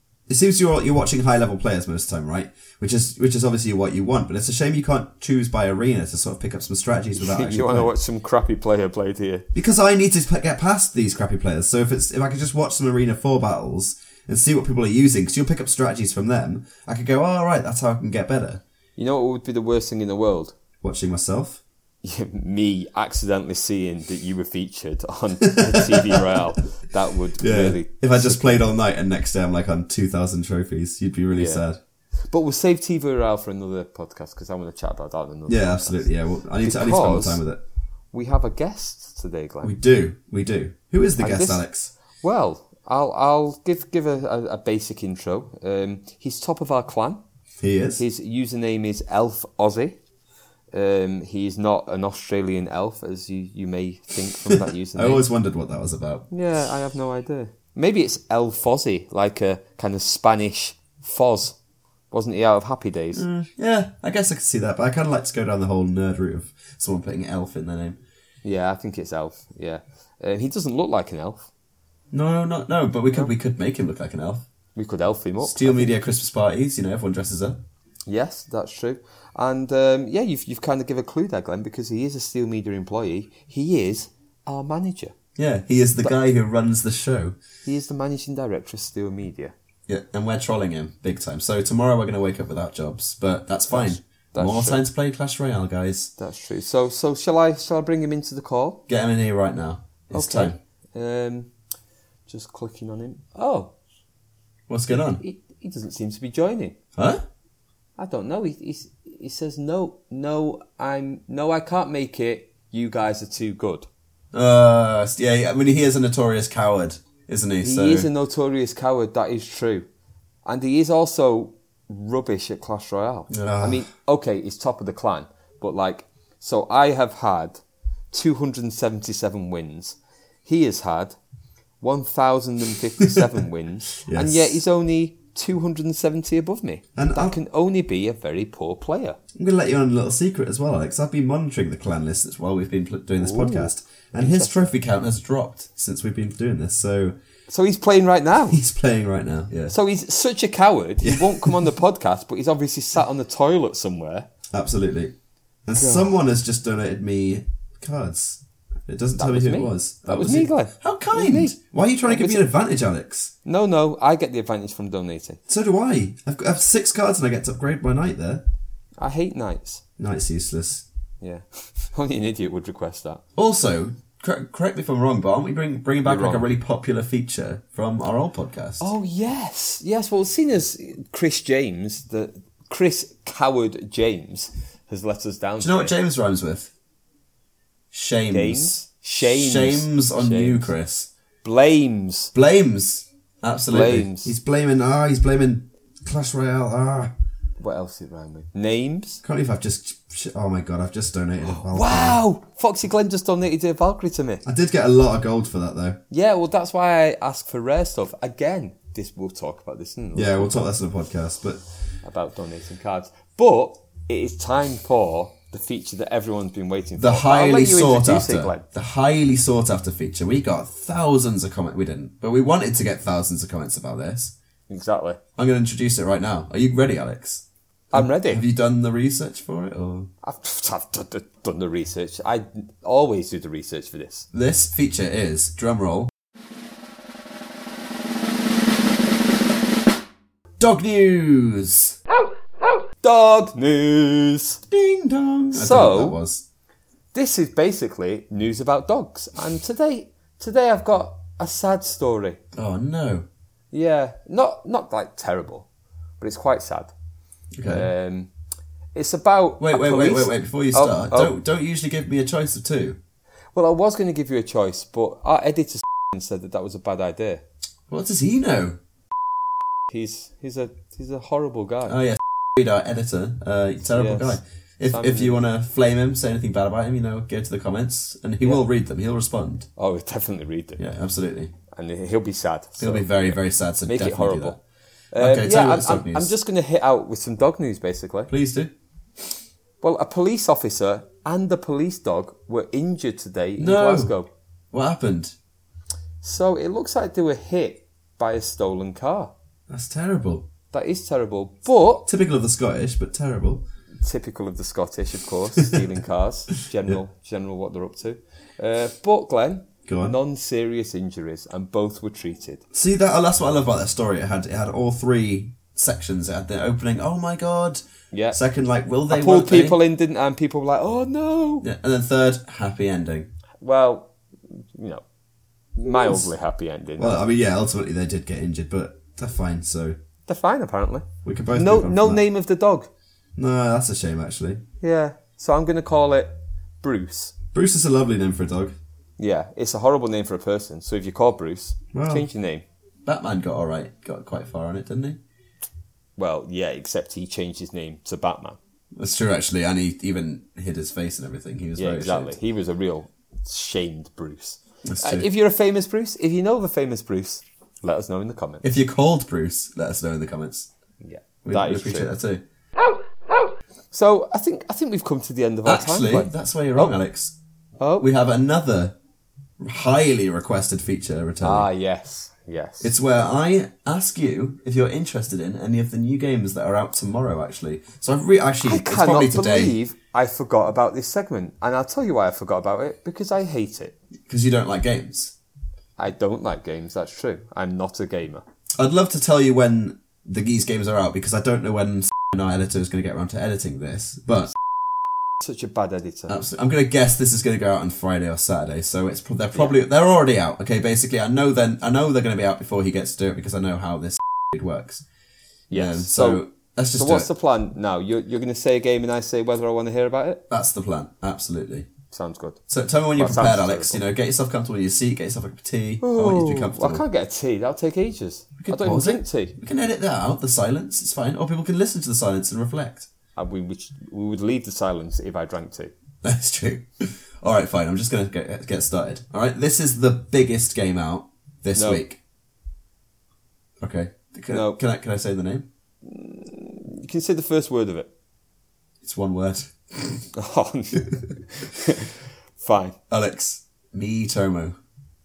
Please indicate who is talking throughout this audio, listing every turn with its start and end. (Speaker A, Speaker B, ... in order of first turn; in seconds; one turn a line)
Speaker A: 0.3-7.9
Speaker B: 7.2-9.5
Speaker A: 9.5-18.6
Speaker B: 19.0-20.6
Speaker A: 20.8-21.6
Speaker B: 22.0-28.7
Speaker A: 25.5-26.4
Speaker A: 27.4-31.8
Speaker B: 31.3-31.6
Speaker B: 32.3-37.4
Speaker A: 35.5-37.6
Speaker B: 38.1-39.8
Speaker A: 39.6-41.9
Speaker B: 41.2-47.2
Speaker A: 47.6-48.0
Speaker B: 48.0-50.0
Speaker B: 50.7-55.2
Speaker A: 54.5-56.3
Speaker B: 56.3-61.6
Speaker B: 62.1-63.2
Speaker A: 63.1-68.0
Speaker B: 68.4-71.5
Speaker A: 72.1-74.5
Speaker B: 74.8-76.0
Speaker A: 75.4-77.6
Speaker B: 78.1-85.2
Speaker A: 85.4-87.4
Speaker B: 87.7-89.5
Speaker A: 89.9-96.1
Speaker B: 93.7-94.8
Speaker B: 96.2-98.8
Speaker A: 98.9-100.6
Speaker B: 100.1-101.5
Speaker B: 102.3-103.7
Speaker A: 104.7-105.2
Speaker B: 105.2-106.8
Speaker A: 107.0-107.2
Speaker B: 108.0-113.9
Speaker A: 114.3-118.1
Speaker B: 117.6-119.9
Speaker B: 120.5-127.6
Speaker A: 123.3-123.9
Speaker B: 128.1-131.2
Speaker B: 131.8-139.2
Speaker A: 133.1-133.3
Speaker A: 134.0-134.6
Speaker A: 137.0-137.4
Speaker A: 139.3-147.2
Speaker B: 143.2-144.7
Speaker B: 147.5-148.6
Speaker A: 148.5-149.7
Speaker B: 149.7-154.3
Speaker A: 151.0-151.7
Speaker A: 154.5-155.1
Speaker A: 155.7-163.3
Speaker B: 155.8-156.2
Speaker B: 159.2-162.4
Speaker B: 163.4-165.4
Speaker A: 165.5-168.4
Speaker B: 169.0-169.8
Speaker A: 170.0-170.8
Speaker B: 171.2-173.2
Speaker A: 173.4-178.9
Speaker B: 176.0-176.5
Speaker B: 178.8-185.9
Speaker A: 185.6-186.7
Speaker A: 187.9-191.1
Speaker B: 188.3-190.7
Speaker B: 191.4-192.3
Speaker A: 192.3-197.1
Speaker B: 193.7-194.3
Speaker B: 197.6-199.2
Speaker A: 199.2-202.2
Speaker B: 201.4-204.4
Speaker A: 204.4-206.0
Speaker B: 206.1-210.7
Speaker A: 210.1-211.6
Speaker B: 212.0-218.7
Speaker A: 217.0-224.3
Speaker B: 224.7-225.2
Speaker A: 225.4-230.1
Speaker B: 227.9-228.4
Speaker B: 230.2-234.3
Speaker A: 234.3-236.1
Speaker A: 240.6-242.0
Speaker B: 243.0-244.6
Speaker A: 244.7-246.4
Speaker B: 245.5-246.2
Speaker B: 247.1-252.4
Speaker A: 252.6-253.3
Speaker B: 253.7-255.7
Speaker B: 256.2-256.9
Speaker A: 257.6-257.9
Speaker B: 257.6-258.3
Speaker B: 258.9-261.3
Speaker A: 259.6-263.0
Speaker B: 263.5-267.4
Speaker A: 267.9-268.8
Speaker B: 269.9-272.0
Speaker A: 271.9-279.7
Speaker B: 273.9-275.4
Speaker B: 279.8-280.8
Speaker A: 280.8-281.5
Speaker B: 281.7-284.6
Speaker A: 282.8-284.6
Speaker B: 285.1-288.3
Speaker A: 285.2-286.3
Speaker A: 288.3-288.7
Speaker B: 289.8-294.3
Speaker A: 293.6-294.1
Speaker A: 294.7-295.4
Speaker B: 296.2-299.3
Speaker A: 299.7-300.5
Speaker B: 300.7-302.1
Speaker A: 302.1-303.6
Speaker B: 304.0-312.6
Speaker A: 309.9-310.2
Speaker A: 312.7-319.8
Speaker B: 318.1-318.4
Speaker B: 319.1-321.7
Speaker A: 321.6-323.3
Speaker B: 323.6-325.0
Speaker B: 325.8-327.2
Speaker A: 326.0-326.3
Speaker A: 327.0-330.0
Speaker B: 330.3-332.9
Speaker A: 331.2-332.2
Speaker A: 333.4-334.6
Speaker B: 334.8-337.3
Speaker A: 337.5-338.8
Speaker B: 339.2-342.7
Speaker A: 341.9-342.3
Speaker A: 343.1-345.2
Speaker B: 346.2-348.6
Speaker A: 349.0-352.4
Speaker B: 351.8-358.7
Speaker A: 354.9-355.3
Speaker A: 358.6-360.7
Speaker B: 361.0-362.1
Speaker A: 361.4-362.4
Speaker B: 363.3-366.9
Speaker A: 365.6-367.4
Speaker B: 367.8-368.1
Speaker A: 368.0-368.9
Speaker A: 369.6-371.7
Speaker B: 371.4-373.0
Speaker A: 372.8-379.8
Speaker B: 378.6-383.9
Speaker A: 384.3-385.3
Speaker B: 386.0-388.4
Speaker A: 388.8-394.5
Speaker B: 395.4-396.4
Speaker A: 396.3-405.0
Speaker B: 405.7-406.4
Speaker A: 405.7-407.3
Speaker B: 406.9-410.4
Speaker A: 410.5-411.9
Speaker B: 412.1-412.6
Speaker A: 412.7-417.0
Speaker B: 413.2-414.0
Speaker B: 416.0-419.6
Speaker A: 418.6-423.1
Speaker B: 423.4-425.9
Speaker A: 426.2-432.2
Speaker B: 431.8-432.0
Speaker A: 433.8-435.7
Speaker B: 434.5-434.8
Speaker B: 436.0-438.1
Speaker A: 439.0-440.2
Speaker B: 440.3-443.0
Speaker A: 443.1-444.8